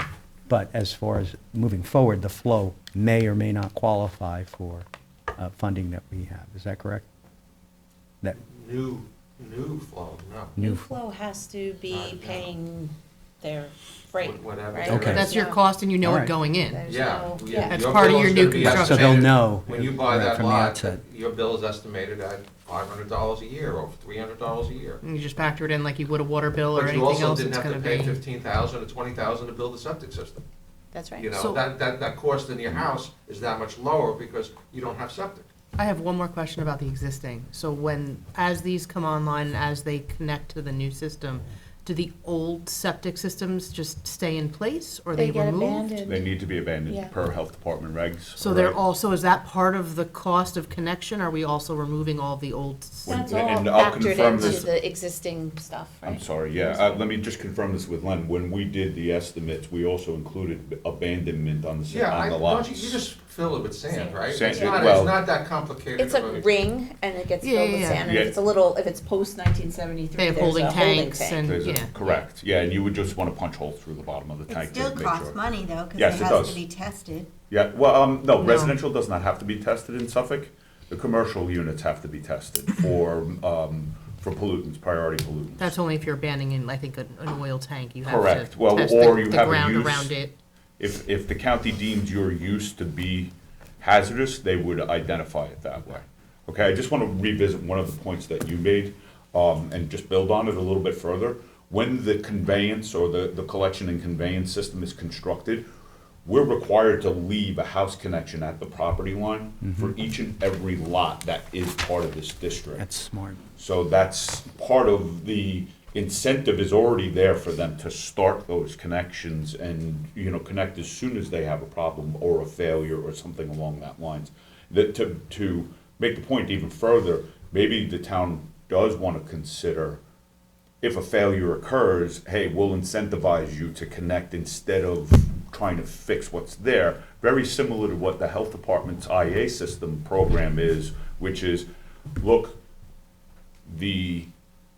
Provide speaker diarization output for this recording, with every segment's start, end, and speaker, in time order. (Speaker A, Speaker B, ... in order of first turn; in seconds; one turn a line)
Speaker A: 0.5-7.0
Speaker B: 8.4-10.6
Speaker A: 10.6-10.9
Speaker C: 10.6-15.6
Speaker B: 11.9-12.5
Speaker B: 14.2-15.4
Speaker A: 14.9-15.3
Speaker D: 15.1-16.8
Speaker A: 16.0-16.3
Speaker C: 16.7-17.8
Speaker B: 16.9-25.0
Speaker D: 17.6-19.1
Speaker A: 18.6-21.0
Speaker D: 25.0-28.2
Speaker B: 26.7-30.4
Speaker C: 30.9-31.3
Speaker B: 31.2-35.5
Speaker D: 31.3-31.6
Speaker D: 35.8-46.1
Speaker C: 45.1-46.2
Speaker E: 46.1-48.8
Speaker C: 46.9-47.1
Speaker D: 48.4-54.7
Speaker E: 53.0-54.6
Speaker C: 53.1-57.0
Speaker E: 56.0-63.1
Speaker B: 61.9-66.5
Speaker C: 63.9-64.9
Speaker E: 64.3-65.2
Speaker F: 64.5-64.9
Speaker C: 66.0-71.5
Speaker D: 67.4-68.0
Speaker E: 68.0-68.4
Speaker D: 70.2-71.9
Speaker E: 71.4-75.4
Speaker F: 74.5-77.3
Speaker E: 75.9-76.6
Speaker E: 77.4-85.8
Speaker D: 78.4-78.7
Speaker D: 85.6-90.3
Speaker E: 88.0-90.1
Speaker E: 90.8-105.7
Speaker E: 106.2-112.9
Speaker A: 109.7-109.9
Speaker A: 112.8-113.4
Speaker E: 113.6-130.0
Speaker E: 130.8-142.6
Speaker E: 143.7-144.3